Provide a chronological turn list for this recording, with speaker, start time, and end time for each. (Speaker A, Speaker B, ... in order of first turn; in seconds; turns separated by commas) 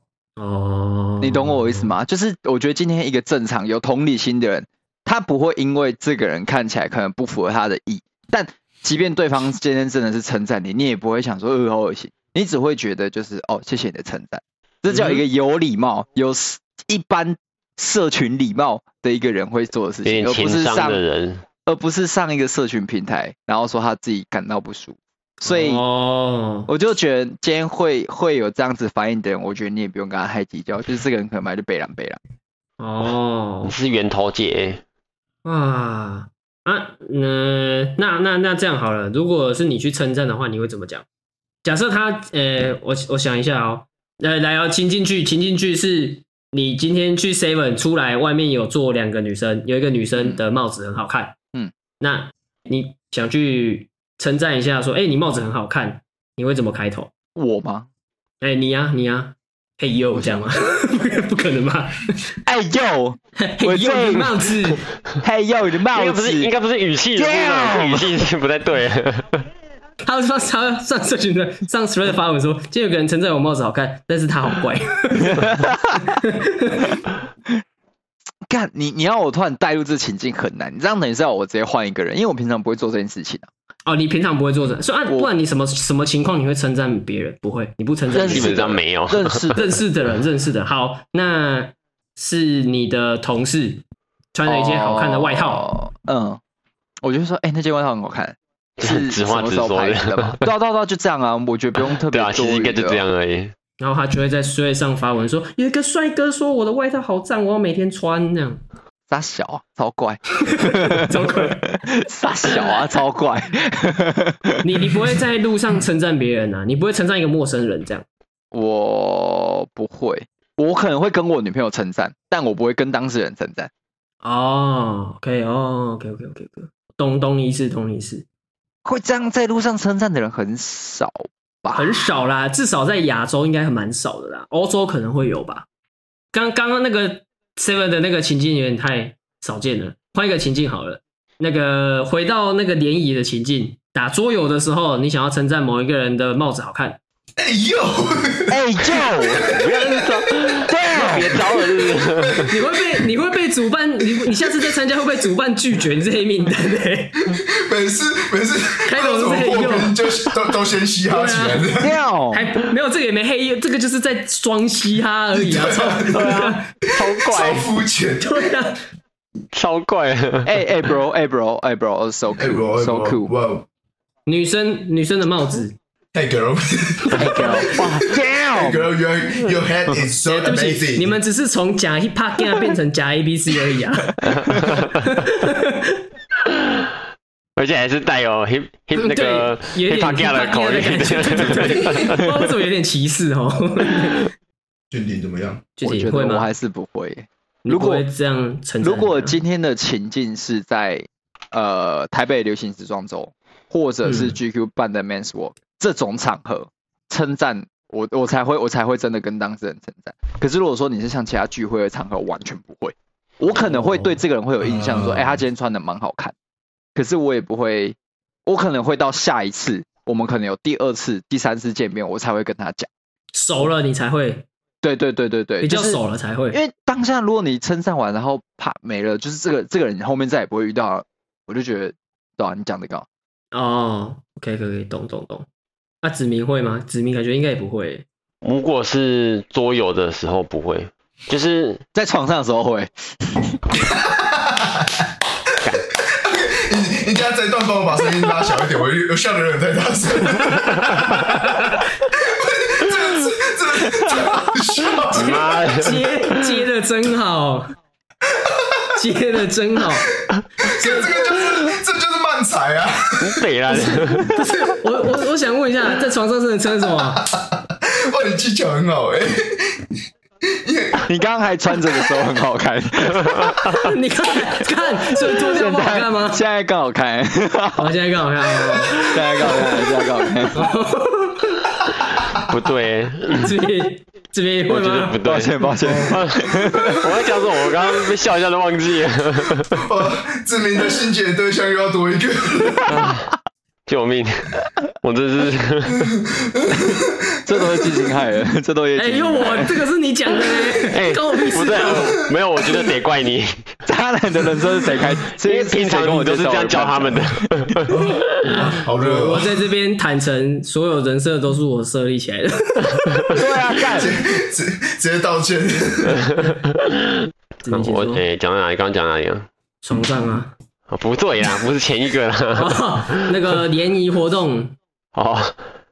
Speaker A: 0.4-1.9, Speaker B: 1.2-21.0, Speaker A: 14.9-15.2, Speaker C: 20.0-21.4, Speaker B: 21.7-25.8, Speaker A: 25.4-26.7, Speaker B: 26.7-32.2, Speaker A: 32.8-33.7, Speaker C: 33.7-34.8, Speaker A: 35.5-41.0, Speaker A: 41.6-51.4, Speaker A: 52.0-57.1, Speaker B: 57.4-57.9, Speaker A: 58.4-62.2, Speaker B: 62.5-64.4, Speaker A: 63.4-64.8, Speaker B: 65.2-66.5, Speaker C: 65.9-69.4, Speaker B: 67.2-68.2, Speaker A: 70.0-75.5, Speaker B: 75.2-76.0, Speaker A: 76.1-76.9, Speaker B: 78.5-83.5, Speaker A: 83.9-88.6, Speaker B: 88.1-89.8, Speaker C: 88.2-89.5, Speaker A: 89.5-93.8, Speaker A: 94.3-95.7, Speaker B: 94.5-96.4, Speaker B: 97.0-103.0, Speaker C: 98.8-100.4, Speaker C: 101.8-103.5, Speaker A: 103.8-108.6, Speaker B: 109.1-115.0, Speaker A: 110.6-111.6, Speaker A: 114.6-118.0, Speaker B: 118.5-123.7, Speaker A: 124.2-128.2, Speaker B: 128.8-131.9, Speaker A: 131.7-135.7, Speaker A: 136.3-147.0, Speaker D: 147.4-150.1, Speaker B: 148.5-149.5, Speaker C: 149.3-152.5, Speaker B: 150.7-151.4, Speaker D: 151.4-153.1, Speaker A: 152.5-157.2, Speaker D: 154.2-154.7, Speaker D: 157.3-162.0, Speaker A: 158.9-160.0, Speaker A: 161.1-161.7, Speaker B: 161.8-162.5, Speaker A: 162.3-166.7, Speaker D: 165.3-166.4, Speaker C: 166.1-167.7, Speaker D: 167.0-168.5, Speaker A: 168.2-168.8, Speaker C: 169.5-170.5, Speaker B: 170.4-173.3, Speaker D: 172.4-173.7, Speaker A: 174.3-175.8, Speaker D: 176.1-177.5, Speaker B: 177.2-178.9, Speaker D: 178.5-181.2, Speaker A: 180.3-184.2, Speaker C: 184.3-184.9, Speaker A: 185.0-186.0, Speaker C: 187.6-192.3, Speaker A: 188.9-194.3, Speaker D: 194.9-195.7, Speaker A: 195.8-196.5, Speaker B: 195.8-198.1, Speaker A: 197.7-199.4, Speaker B: 198.8-216.3, Speaker A: 204.0-204.4, Speaker A: 213.6-214.2, Speaker D: 214.6-215.4, Speaker B: 216.9-222.9, Speaker A: 223.3-224.5, Speaker B: 224.8-226.0, Speaker A: 225.6-226.6, Speaker B: 226.5-233.1, Speaker A: 233.5-235.5, Speaker A: 236.0-238.1, Speaker C: 238.4-241.8, Speaker B: 241.9-243.6, Speaker D: 243.8-245.1, Speaker D: 246.1-255.5, Speaker A: 251.3-251.8, Speaker C: 255.1-256.4, Speaker A: 255.2-257.7, Speaker D: 258.3-258.8, Speaker A: 259.0-260.1, Speaker D: 260.6-263.4, Speaker A: 260.8-261.1, Speaker C: 263.2-264.3, Speaker A: 263.8-267.2, Speaker D: 266.9-269.9, Speaker D: 270.6-271.1, Speaker B: 271.1-273.6, Speaker A: 273.8-276.4, Speaker B: 275.1-277.9, Speaker A: 277.8-279.1, Speaker B: 278.7-280.7, Speaker C: 279.4-279.6, Speaker A: 280.5-281.7, Speaker C: 282.3-283.5, Speaker A: 283.4-285.2, Speaker C: 284.7-289.8, Speaker B: 285.2-287.1, Speaker D: 289.7-293.0, Speaker C: 292.9-293.3, Speaker C: 293.9-296.1, Speaker D: 295.9-298.1, Speaker B: 296.7-299.8, Speaker A: 299.0-302.2, Speaker C: 300.9-303.6, Speaker B: 303.9-307.7, Speaker C: 305.4-307.9, Speaker D: 307.9-309.6, Speaker A: 308.4-313.3, Speaker B: 313.3-314.1, Speaker D: 313.9-316.3, Speaker C: 316.1-319.5, Speaker A: 317.6-318.2, Speaker A: 319.8-320.5, Speaker C: 320.9-323.1, Speaker A: 322.5-324.8, Speaker C: 325.1-325.6